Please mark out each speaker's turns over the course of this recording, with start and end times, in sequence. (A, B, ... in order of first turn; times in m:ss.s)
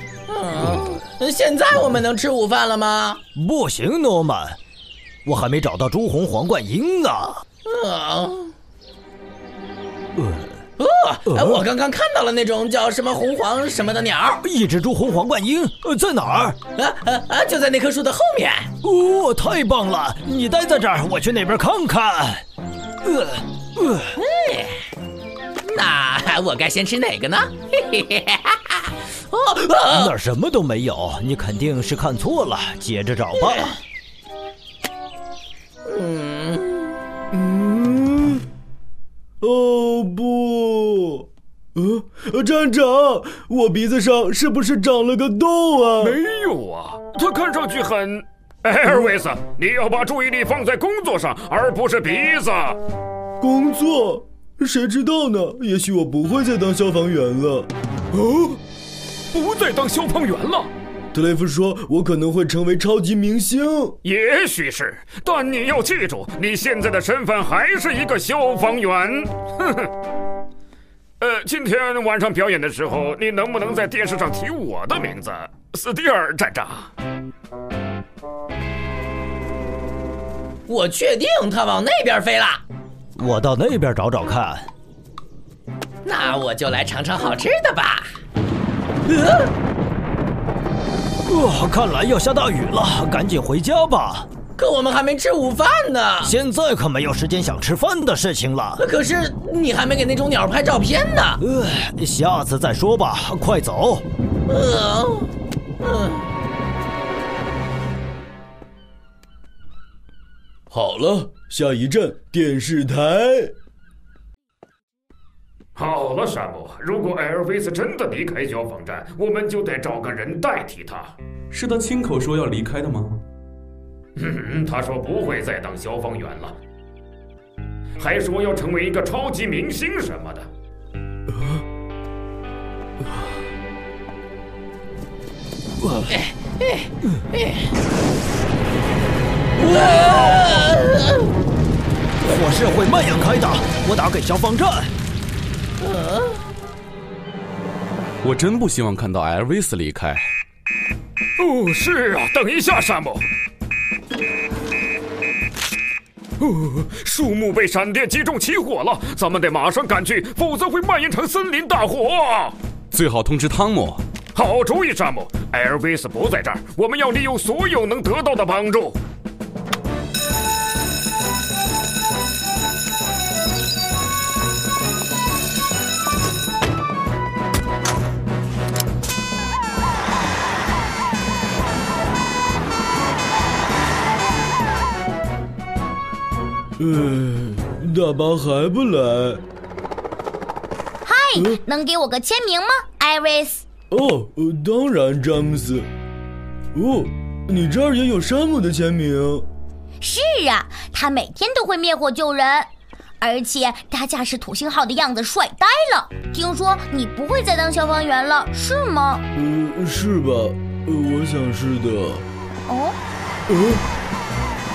0:00.3-0:03.2 A
0:03.4-0:04.6 B
0:05.2-0:07.4 B
0:07.7-0:08.5 A
0:10.2-0:10.6 B
0:10.8-0:14.4 A
0:11.3-0:11.6 B
0:14.4-0:16.6 B
0:16.8-0:18.7 A
0:18.8-0:22.4 B
0:23.0-0:24.1 B
0:24.2-0:24.8 A
0:25.7-0:30.1 A
0:29.9-0:33.8 B
0:35.8-0:36.9 A
0:37.3-0:38.4 C
0:39.4-0:46.2 C
0:46.0-0:52.8 D
0:53.4-0:57.7 C
0:58.1-0:58.6 D
0:59.3-1:00.7 D
1:01.1-1:04.0 C
1:04.0-1:09.9 D
1:11.2-1:16.9 D
1:20.7-1:22.6 A
1:23.2-1:24.7 B
1:26.0-1:28.1 A
1:31.3-1:34.3 B
1:34.6-1:36.3 A
1:36.2-1:38.8 B
1:38.8-1:41.4 A
1:41.4-1:44.1 B
1:44.5-1:45.3 A
1:45.8-1:46.3 A
1:50.7-1:53.5 C
1:55.8-2:01.1 D
2:01.5-2:03.2 E
2:04.2-2:06.6 D
2:08.0-2:10.5 D
2:16.1-2:17.7 A
2:19.6-2:21.3 A
2:22.2-2:24.9 B
2:25.8-2:26.4 A
2:28.2-2:30.3 E
2:31.4-2:33.2 D
2:36.4-2:42.6 D
2:42.9-2:44.0 E
2:44.4-2:49.0 D
3:06.8-3:09.4 C
3:11.0-3:13.6 F
3:13.9-3:15.9 C
3:16.8-3:19.5 C
3:20.0-3:22.7 F
3:23.2-3:29.2 F
3:29.4-3:32.2 C
3:32.7-3:33.0 F
3:33.5-3:33.8 C